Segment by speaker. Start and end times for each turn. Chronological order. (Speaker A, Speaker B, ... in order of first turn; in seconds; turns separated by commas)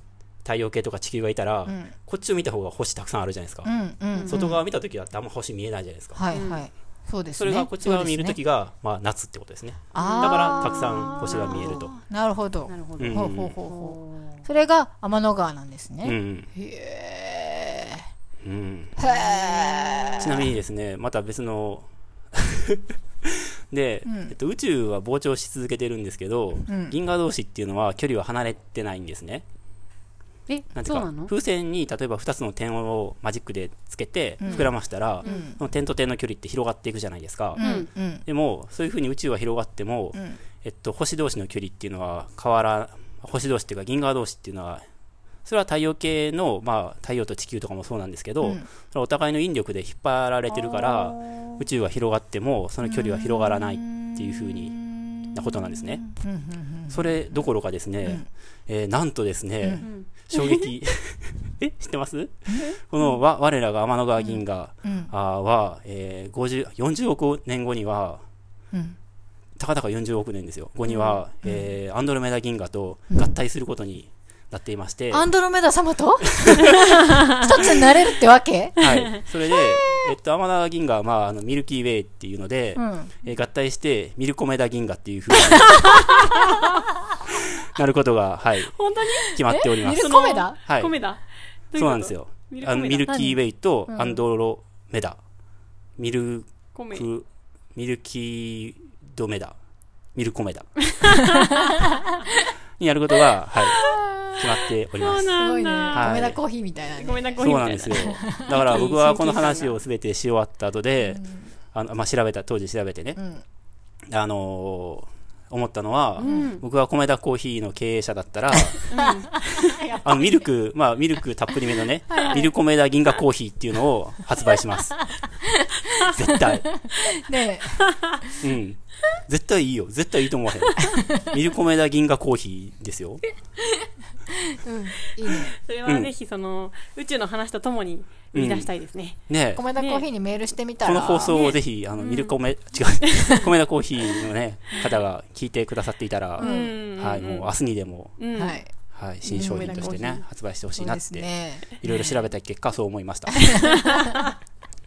Speaker A: 0.4-3.7, Speaker B: 1.7-1.9, Speaker B: 3.6-4.6, Speaker C: 4.1-4.5, Speaker A: 4.3-6.2, Speaker B: 6.1-8.4, Speaker C: 6.3-6.6, Speaker A: 7.3-11.9, Speaker B: 9.9-18.1, Speaker C: 9.9-11.8, Speaker C: 12.7-14.4, Speaker A: 13.0-13.6, Speaker A: 16.0-16.5, Speaker A: 18.4-19.0, Speaker B: 19.0-20.5, Speaker C: 19.4-20.1, Speaker A: 20.2-29.4, Speaker B: 24.0-24.3, Speaker B: 26.7-26.9, Speaker C: 30.5-31.3, Speaker A: 30.7-44.8, Speaker B: 34.4-34.7, Speaker B: 35.2-35.6, Speaker C: 35.2-35.5, Speaker B: 37.5-38.2, Speaker C: 37.6-37.9, Speaker B: 40.1-40.4, Speaker A: 45.4-56.0, Speaker B: 48.4-48.7, Speaker C: 50.5-51.6, Speaker B: 52.8-57.1, Speaker A: 56.9-68.2, Speaker C: 59.8-60.7, Speaker B: 64.8-65.1, Speaker B: 68.7-69.0, Speaker A: 69.6-75.3, Speaker C: 70.9-71.2, Speaker B: 71.4-71.7, Speaker B: 75.1-78.8, Speaker A: 76.4-76.7, Speaker C: 77.0-77.4, Speaker A: 78.8-90.9, Speaker B: 79.5-80.1, Speaker B: 82.8-83.1, Speaker C: 85.6-86.7, Speaker C: 88.7-93.3, Speaker B: 89.4-90.6, Speaker A: 91.8-95.2, Speaker B: 93.9-94.2, Speaker A: 96.0-99.5, Speaker C: 96.7-97.1, Speaker A: 100.1-100.9, Speaker C: 100.9-101.9, Speaker B: 101.6-101.9, Speaker A: 102.8-105.3, Speaker C: 103.7-104.0, Speaker B: 103.8-104.5, Speaker C: 105.0-106.1, Speaker B: 105.3-108.9, Speaker A: 105.9-106.4, Speaker C: 107.0-109.8, Speaker A: 107.4-113.2, Speaker B: 111.1-111.4, Speaker B: 113.2-113.4, Speaker A: 114.1-118.9, Speaker C: 116.2-116.6, Speaker B: 116.2-116.5, Speaker B: 118.7-120.5, Speaker C: 118.9-119.4, Speaker A: 119.4-125.2, Speaker C: 122.1-122.5, Speaker B: 122.1-122.5, Speaker B: 125.4-128.4, Speaker C: 125.8-126.1, Speaker A: 126.1-126.8, Speaker C: 127.8-128.2, Speaker A: 128.4-133.2, Speaker B: 130.8-131.3, Speaker B: 133.7-135.5, Speaker C: 135.2-139.2, Speaker A: 135.8-136.1, Speaker A: 138.3-138.7, Speaker A: 139.3-139.7, Speaker B: 139.5-141.4, Speaker C: 139.7-140.0, Speaker A: 140.8-148.2, Speaker C: 141.3-142.3, Speaker C: 143.0-143.5, Speaker C: 146.4-147.5, Speaker B: 146.4-146.7, Speaker C: 148.2-148.6, Speaker B: 148.3-148.7, Speaker A: 148.9-153.7, Speaker C: 149.2-150.2, Speaker B: 149.3-150.0, Speaker B: 150.8-152.2, Speaker B: 153.3-154.3, Speaker C: 153.6-154.3